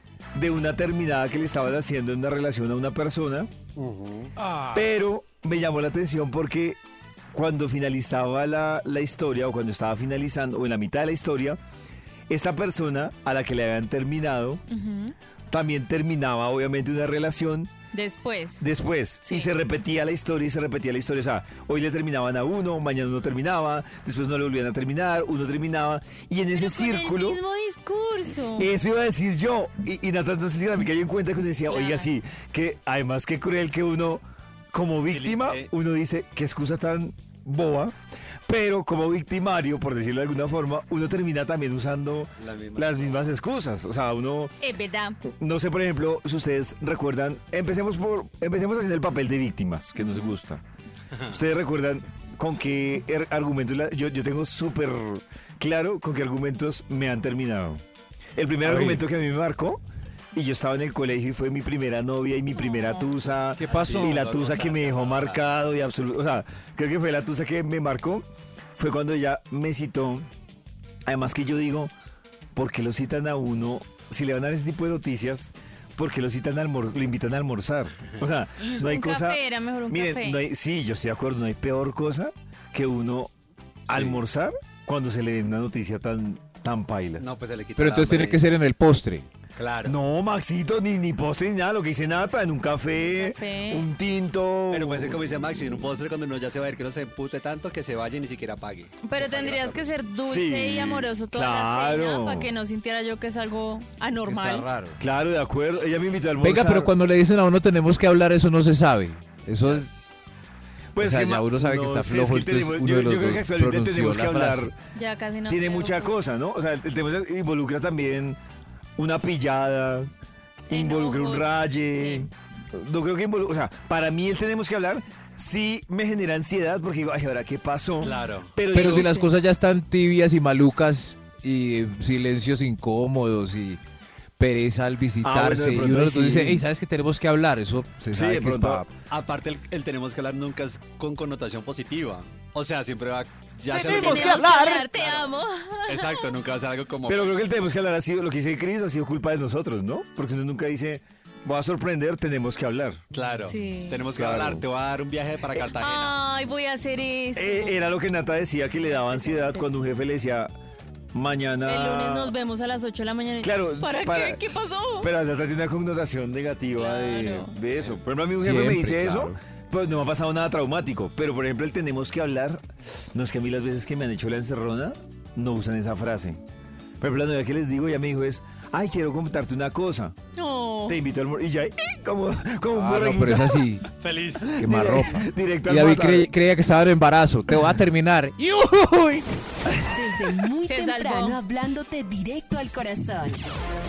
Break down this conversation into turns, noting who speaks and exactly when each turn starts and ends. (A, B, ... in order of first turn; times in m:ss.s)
0:00.3-0:03.6 A
0:03.8-0:04.3 B
0:04.7-0:06.8 A
0:07.3-0:11.6 A
0:12.3-0:14.6 A
0:14.7-0:15.1 C
0:15.5-0:17.7 A
0:17.9-0:18.7 C
0:18.6-0:27.4 A
0:19.2-0:19.5 C
0:26.5-0:28.7 C
0:28.6-0:37.9 A
0:31.7-0:32.1 C
0:35.1-0:35.7 B
0:38.4-0:44.6 A
0:42.4-0:43.3 B
0:44.6-0:45.2 C
0:45.2-0:50.6 A
0:50.0-0:50.3 C
0:51.2-0:57.8 A
0:58.3-0:59.8 A
0:58.7-0:59.0 D
1:00.3-1:08.2 A
1:02.6-1:03.0 C
1:03.6-1:04.2 D
1:03.7-1:05.4 B
1:08.8-1:10.3 A
1:11.0-1:11.9 A
1:12.6-1:23.3 A
1:18.8-1:20.4 C
1:23.9-1:27.4 A
1:23.9-1:24.2 B
1:27.2-1:28.4 B
1:27.8-1:29.3 D
1:29.6-1:30.0 B
1:29.8-1:35.2 A
1:33.1-1:33.9 C
1:34.7-1:39.9 B
1:39.0-1:44.7 C
1:40.2-1:42.5 A
1:44.2-1:44.9 D
1:45.0-1:46.9 A
1:46.4-1:49.9 D
1:51.0-1:54.7 A
1:51.0-1:54.7 D
1:54.9-1:56.2 C
1:55.4-1:58.4 A
1:59.0-2:00.1 A
2:00.7-2:02.2 C
2:00.7-2:09.2 A
2:08.0-2:08.5 B
2:08.7-2:09.3 C
2:08.7-2:13.8 D
2:14.4-2:18.9 D
2:15.2-2:16.6 A
2:18.1-2:18.8 A
2:19.1-2:25.3 B
2:23.7-2:26.3 C
2:23.7-2:24.9 A
2:25.9-2:27.3 B
2:27.1-2:33.0 A
2:33.1-2:36.2 B
2:33.3-2:34.0 C
2:34.1-2:34.6 A
2:35.8-2:37.8 C
2:37.3-2:40.5 A
2:39.0-2:39.7 C
2:41.1-2:42.3 A
2:41.6-2:45.1 C
2:43.4-2:44.4 A
2:45.0-2:52.6 A
2:46.7-2:47.5 C
2:48.4-2:49.4 D
2:53.1-2:56.4 A
2:57.0-3:00.2 A
3:00.4-3:01.0 C
3:00.9-3:03.7 A
3:02.7-3:03.8 D
3:04.0-3:04.6 B
3:04.6-3:06.3 A
3:04.6-3:09.3 D
3:09.9-3:13.4 E
3:10.6-3:11.4 C